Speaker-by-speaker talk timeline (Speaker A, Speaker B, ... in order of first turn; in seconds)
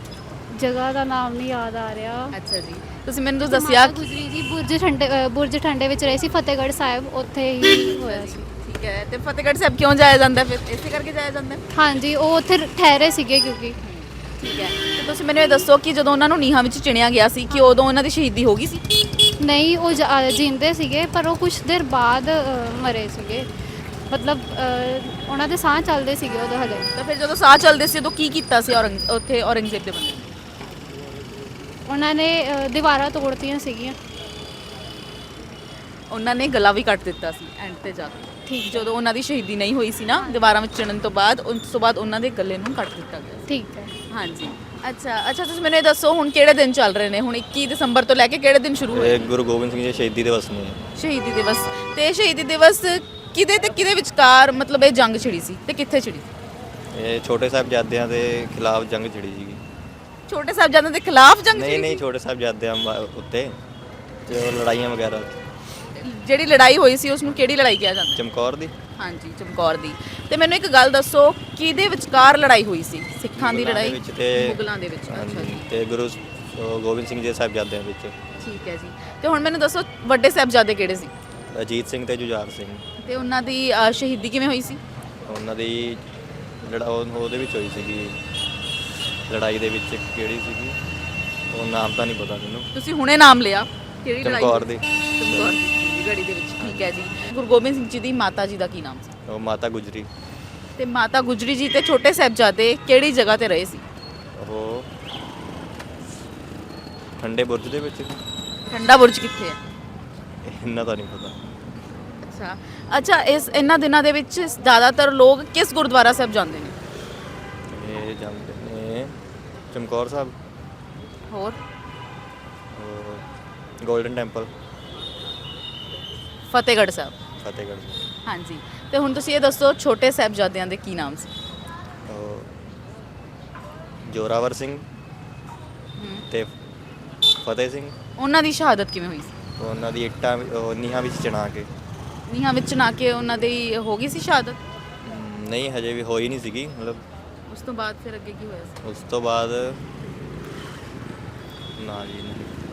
Speaker A: 0.5-2.4, 3.4-8.5, 11.7-13.8, 17.5-17.8, 19.4-23.5, 24.1-26.9, 31.9-34.0, 38.5-38.9, 40.1-40.5, 43.5-43.9
Speaker B: 2.3-4.0, 7.7-11.6, 13.8-18.8, 27.0-30.3, 36.1-43.5, 44.1-49.3, 51.0-56.3, 60.3-62.0, 65.9-68.2, 69.0-75.7, 78.4-81.1, 83.0-84.8, 92.7-99.1, 100.8-103.8, 108.7-109.6, 112.2-116.8, 121.3-121.6, 126.5-127.1, 128.2-131.3, 136.0-136.2, 138.2-139.3, 142.3-144.6, 147.5-148.8
Speaker C: 49.0-50.8, 56.9-59.6, 61.5-63.6, 64.3-65.4, 68.2-68.7, 73.4-78.1, 81.5-82.8, 85.3-86.0, 86.6-88.2, 89.3-90.8, 91.5-92.6, 94.2-95.5, 99.3-100.1, 104.4-104.9, 107.2-108.2, 110.4-111.4, 117.7-119.2, 119.7-120.3, 122.7-123.2, 123.8-124.5, 127.4-128.0, 132.1-132.6, 134.1-134.8, 137.4-137.9, 139.6-141.7, 145.0-147.0, 148.8-149.8, 151.8-152.5